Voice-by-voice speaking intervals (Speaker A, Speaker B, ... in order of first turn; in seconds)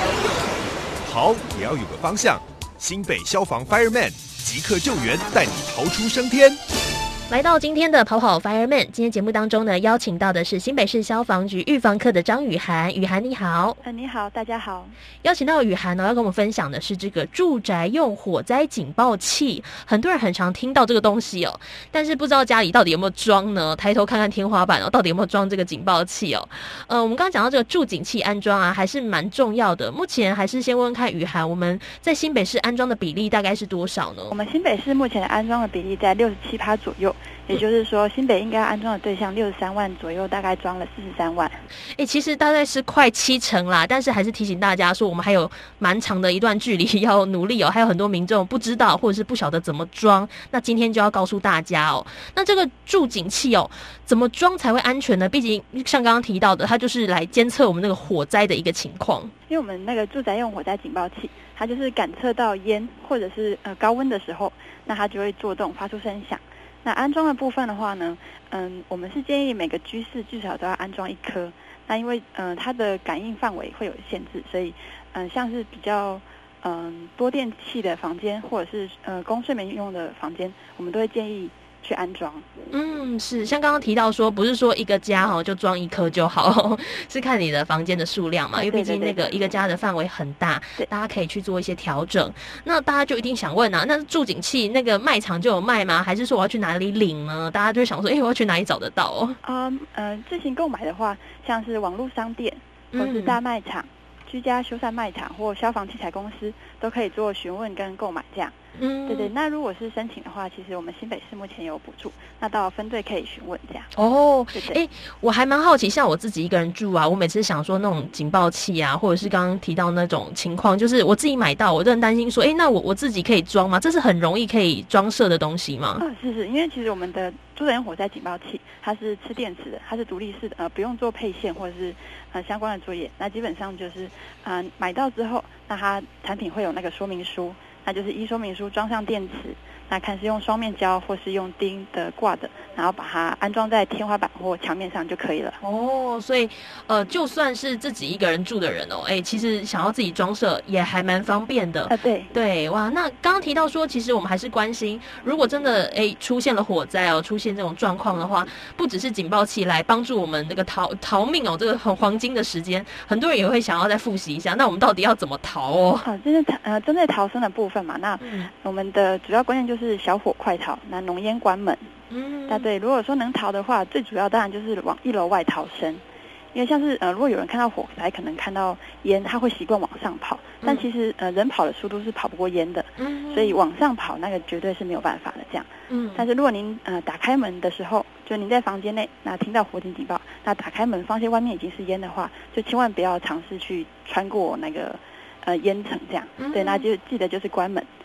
Speaker A: 1.0-6.6
Speaker B: 7.3-13.8, 15.2-34.3, 42.0-59.3, 82.7-99.4, 102.9-103.4, 108.8-109.3, 114.0-126.0, 145.6-166.1, 168.2-168.5, 172.1-172.7, 183.0-183.6, 185.9-186.2, 196.4-196.8
Speaker C: 13.8-14.9, 34.3-41.6, 59.5-82.4, 88.5-89.4, 99.4-108.5, 109.0-113.9, 114.5-114.8, 126.0-145.6, 151.9-152.3, 166.0-171.8, 172.5-176.0, 176.5-197.9